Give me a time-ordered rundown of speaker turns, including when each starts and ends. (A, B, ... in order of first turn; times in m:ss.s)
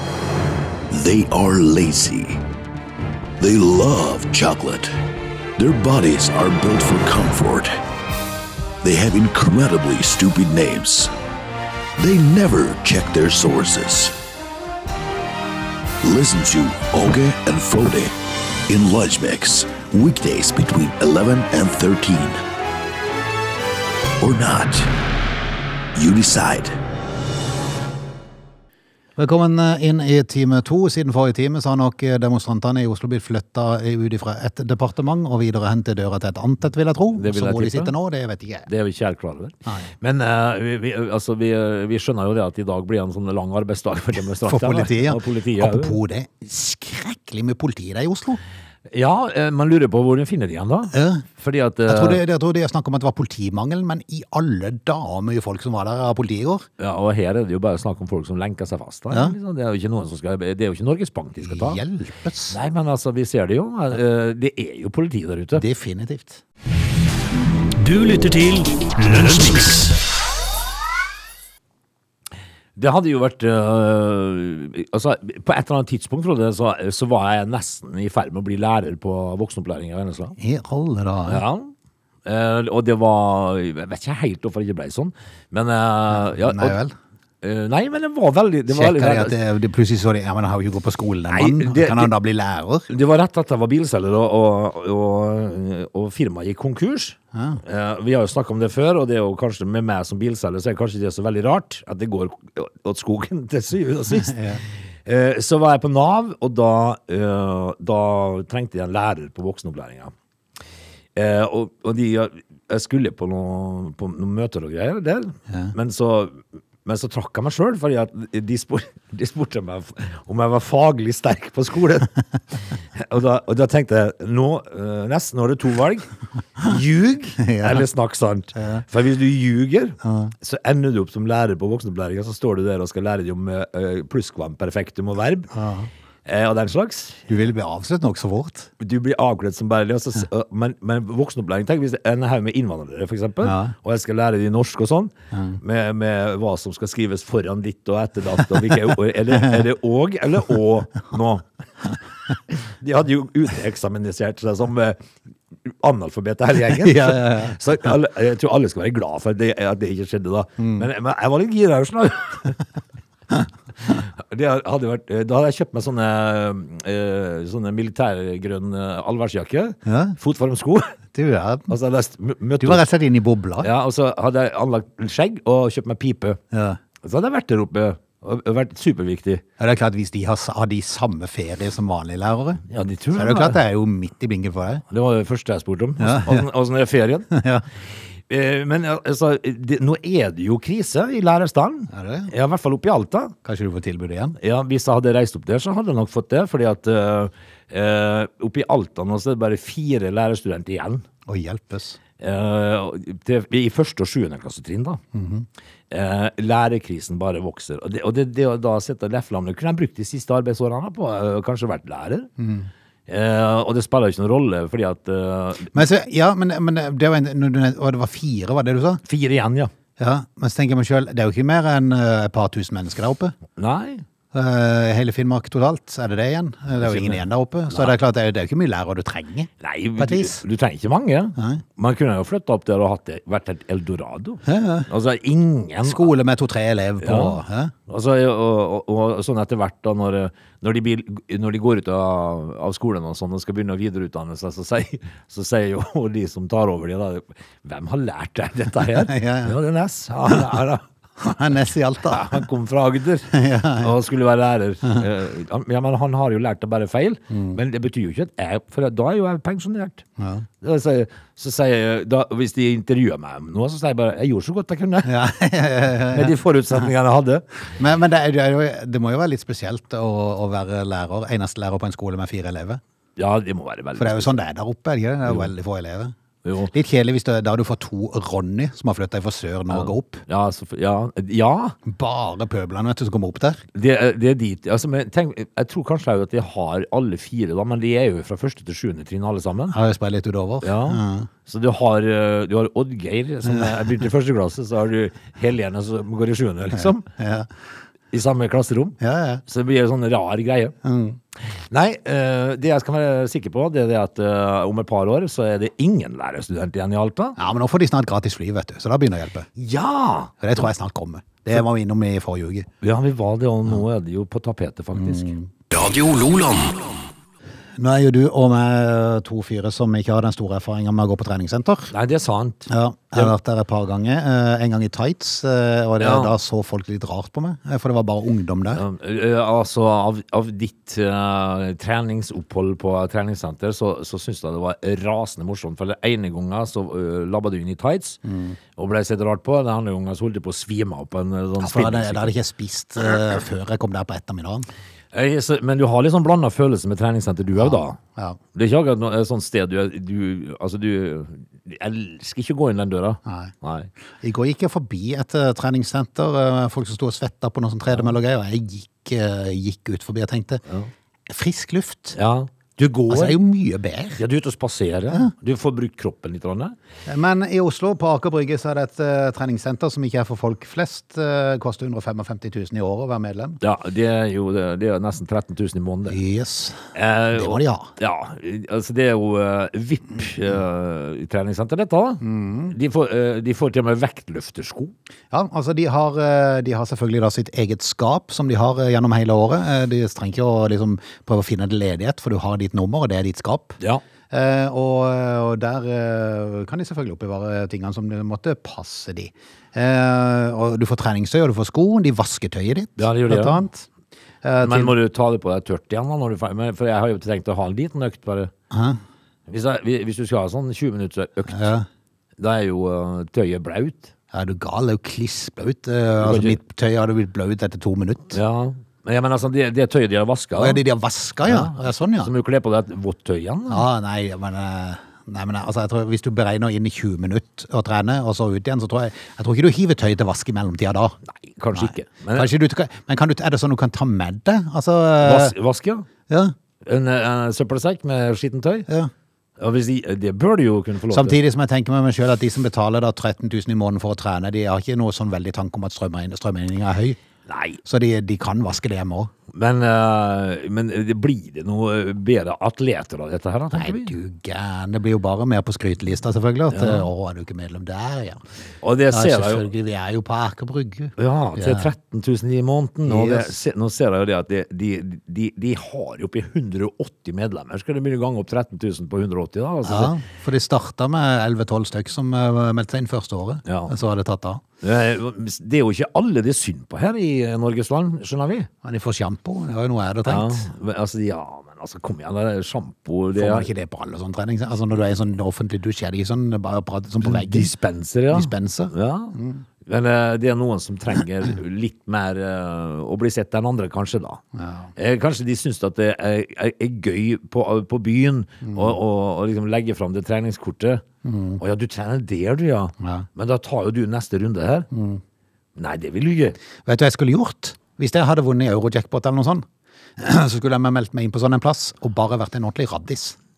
0:00.9-0:02.4 A
0:03.4-0:04.9 A
0:05.6-0:07.8 A
0:08.8-0:11.1 A
0:12.0-0:14.2 A
0:16.0-0:18.1 A
0:18.7-0:22.4 A
0:24.2-0:24.9 A
0:25.9-0:26.8 A
0:29.2-0:38.7 B
0:37.1-0:37.9 C
0:38.7-0:46.0 C
0:44.4-0:48.4 B
0:48.9-0:52.2 C
0:50.9-0:51.2 B
0:51.9-0:56.6 B
0:56.8-1:01.8 C
1:01.4-1:02.6 B
1:02.5-1:05.6 C
1:05.5-1:06.4 B
1:07.8-1:10.0 D
1:12.8-1:20.4 C
1:20.4-1:21.4 B
1:21.3-1:21.7 C
1:22.2-1:26.8 C
1:26.1-1:26.9 B
1:27.4-1:29.3 C
1:28.7-1:32.9 B
1:31.3-1:32.1 C
1:32.9-1:50.1 C
1:37.3-1:37.6 B
1:44.1-1:44.6 B
1:51.2-2:15.5 C
2:07.4-2:07.8 B
2:08.6-2:08.8 B
2:10.0-2:10.3 B
2:15.5-2:15.9 B
2:16.2-2:17.2 C
2:17.3-2:18.7 B
2:18.8-2:31.4 C
2:23.4-2:23.7 B
2:25.3-2:25.6 B
2:32.5-2:35.0 C
2:35.8-2:42.6 C
2:36.7-2:37.6 B
2:40.6-2:40.8 B
2:43.8-2:51.0 C
2:49.8-2:50.2 B
2:51.1-2:51.7 B
2:51.7-2:52.8 C
2:52.6-2:53.7 B
2:53.6-2:56.4 C
2:56.5-2:56.8 B
2:57.0-2:59.4 C
2:59.6-3:02.6 B
3:02.7-3:03.6 C
3:03.1-3:04.8 B
3:04.9-3:07.3 C
3:06.0-3:06.4 B
3:07.3-3:07.6 B
3:08.3-3:13.3 C
3:11.9-3:12.3 B
3:13.4-3:14.4 B
3:14.4-3:21.0 C
3:21.2-3:22.0 B
3:22.2-3:25.0 C
3:25.1-3:25.4 B
3:25.9-3:32.3 C
3:32.4-3:32.7 B
3:33.1-3:35.7 C
3:35.7-3:39.0 B
3:39.0-3:39.7 C
3:40.0-3:43.3 B
3:43.6-3:44.0 C
3:44.3-3:50.4 B
3:46.8-3:48.0 C
3:49.6-3:56.1 C
3:51.4-3:51.6 B
3:54.4-3:54.9 B
3:55.8-3:57.7 B
3:57.0-4:10.8 C
4:08.9-4:09.6 B
4:11.2-4:12.4 B
4:12.1-4:13.3 C
4:13.3-4:13.9 B
4:13.8-4:20.0 C
4:17.3-4:17.6 B
4:20.2-4:20.4 B
4:20.6-4:25.1 C
4:25.0-4:26.8 B
4:26.1-4:27.4 C
4:27.8-4:32.8 B
4:33.2-4:34.3 C
4:34.0-4:36.1 B
4:36.4-4:36.7 C
4:36.7-4:40.2 B
4:39.7-4:41.8 C
4:41.8-4:43.6 B
4:43.7-4:49.8 C
4:49.7-4:51.3 B
4:50.6-4:57.0 C
4:53.4-4:53.7 B
4:56.7-4:57.5 B
4:58.1-5:00.7 C
4:59.0-4:59.4 B
5:00.8-5:01.2 B
5:01.7-5:07.4 C
5:07.4-5:09.5 B
5:09.6-5:10.4 C
5:10.4-5:12.7 B
5:12.8-5:15.3 C
5:15.0-5:15.5 B
5:15.7-5:16.8 A
5:17.8-5:21.9 B
5:21.9-5:23.3 C
5:22.7-5:28.8 B
5:26.0-5:26.3 C
5:28.7-5:38.2 C
5:38.2-5:38.6 B
5:38.8-5:42.3 C
5:41.6-5:44.7 B
5:45.1-5:48.0 C
5:47.6-5:48.4 B
5:48.5-5:53.9 C
5:53.2-5:53.5 B
5:54.2-6:00.6 B
6:01.3-6:02.2 B
6:02.2-6:03.4 C
6:03.1-6:04.2 B
6:04.2-6:06.7 C
6:07.1-6:13.6 B
6:13.6-6:16.2 C
6:16.1-6:17.9 B
6:16.9-6:24.9 C
6:22.2-6:22.7 B
6:25.3-6:33.8 B
6:34.3-6:43.9 B
6:43.0-6:43.6 C
6:44.4-6:44.9 B
6:44.6-6:48.5 C
6:48.7-6:49.0 B
6:49.5-6:51.7 C
6:51.5-6:51.8 B
6:52.4-6:54.1 C
6:54.3-6:58.4 B
6:56.2-6:56.6 C
6:58.3-7:00.8 C
7:00.6-7:02.3 B
7:01.4-7:03.8 C
7:03.7-7:11.2 B
7:11.3-7:12.5 C
7:11.7-7:15.5 B
7:15.2-7:16.1 C
7:16.3-7:16.5 B
7:16.8-7:18.9 C
7:19.6-7:21.3 C
7:21.1-7:27.2 B
7:27.5-7:27.8 C
7:27.8-7:29.3 B
7:29.5-7:34.1 C
7:33.7-7:38.4 B
7:36.7-7:37.1 C
7:38.8-7:39.7 C
7:39.1-7:41.9 B
7:41.2-7:50.2 C
7:43.0-7:43.5 B
7:49.8-7:54.6 B
7:53.6-7:53.9 C
7:54.8-7:58.7 C
7:58.8-8:00.7 B
8:00.2-8:03.7 C
8:03.4-8:07.7 B
8:07.2-8:14.4 C
8:08.3-8:09.6 B
8:14.6-8:14.9 B
8:15.0-8:21.0 C
8:18.7-8:18.9 B
8:21.2-8:21.6 B
8:21.6-8:24.9 C
8:23.0-8:23.2 B
8:24.9-8:25.2 B
8:25.8-8:26.6 C
8:26.8-8:29.6 B
8:30.2-8:33.4 B